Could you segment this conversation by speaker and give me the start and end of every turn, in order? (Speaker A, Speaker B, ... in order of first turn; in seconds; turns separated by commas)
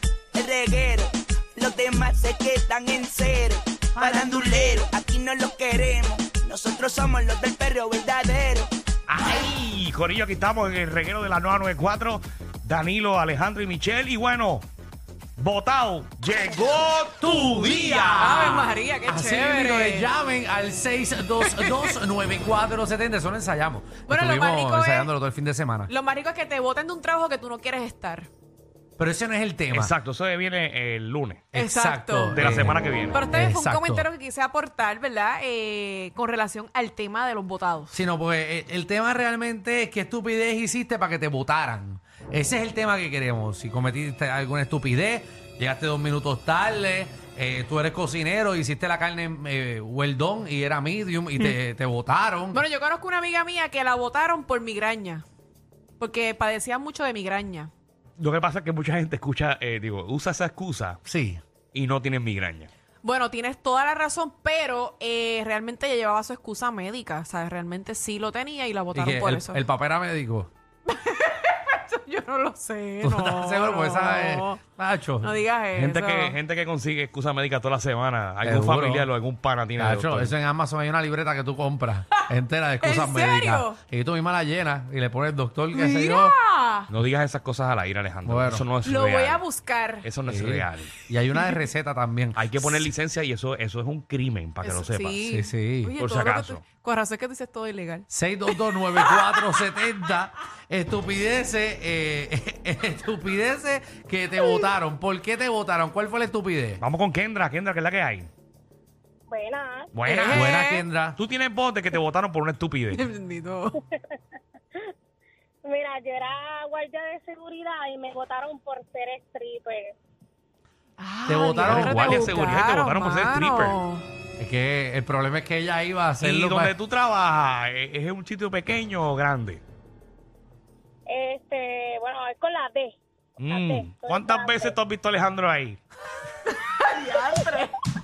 Speaker A: 0.3-8.7, Speaker B: 9.1-14.7, Speaker B: 15.4-18.6, Speaker C: 17.2-25.9, Speaker D: 18.2-20.1, Speaker D: 21.4-21.9, Speaker D: 24.1-25.1, Speaker D: 25.9-28.3, Speaker C: 29.0-29.9, Speaker B: 29.7-31.5, Speaker C: 31.5-34.1, Speaker D: 31.5-32.5, Speaker B: 32.3-33.2, Speaker D: 33.1-38.0, Speaker C: 37.9-52.6, Speaker D: 52.5-55.2, Speaker D: 56.0-57.7, Speaker B: 58.2-61.0, Speaker C: 61.0-61.4, Speaker B: 61.7-62.7, Speaker D: 63.0-69.6, Speaker C: 68.9-70.5, Speaker D: 70.9-74.6, Speaker C: 73.0-75.4, Speaker D: 75.2-76.4, Speaker B: 75.8-80.3, Speaker C: 78.4-79.1, Speaker C: 79.8-86.3, Speaker D: 82.8-83.8, Speaker D: 85.7-86.9, Speaker B: 86.9-89.4, Speaker C: 88.2-88.7, Speaker D: 88.8-90.1, Speaker B: 90.0-90.9, Speaker C: 90.3-92.9, Speaker B: 92.4-95.2, Speaker D: 94.6-98.1, Speaker C: 95.3-96.0, Speaker B: 96.0-96.6, Speaker C: 98.1-106.8, Speaker B: 106.8-108.3, Speaker E: 109.3-109.9, Speaker B: 109.9-110.6, Speaker D: 110.0-110.9, Speaker C: 110.3-111.2, Speaker B: 111.2-113.0, Speaker D: 112.9-113.8, Speaker E: 115.6-120.0, Speaker D: 121.0-124.1, Speaker C: 121.3-122.3, Speaker B: 121.7-123.8, Speaker C: 124.4-126.8, Speaker B: 126.2-129.6, Speaker E: 131.1-134.8, Speaker B: 133.4-135.8, Speaker D: 136.7-137.8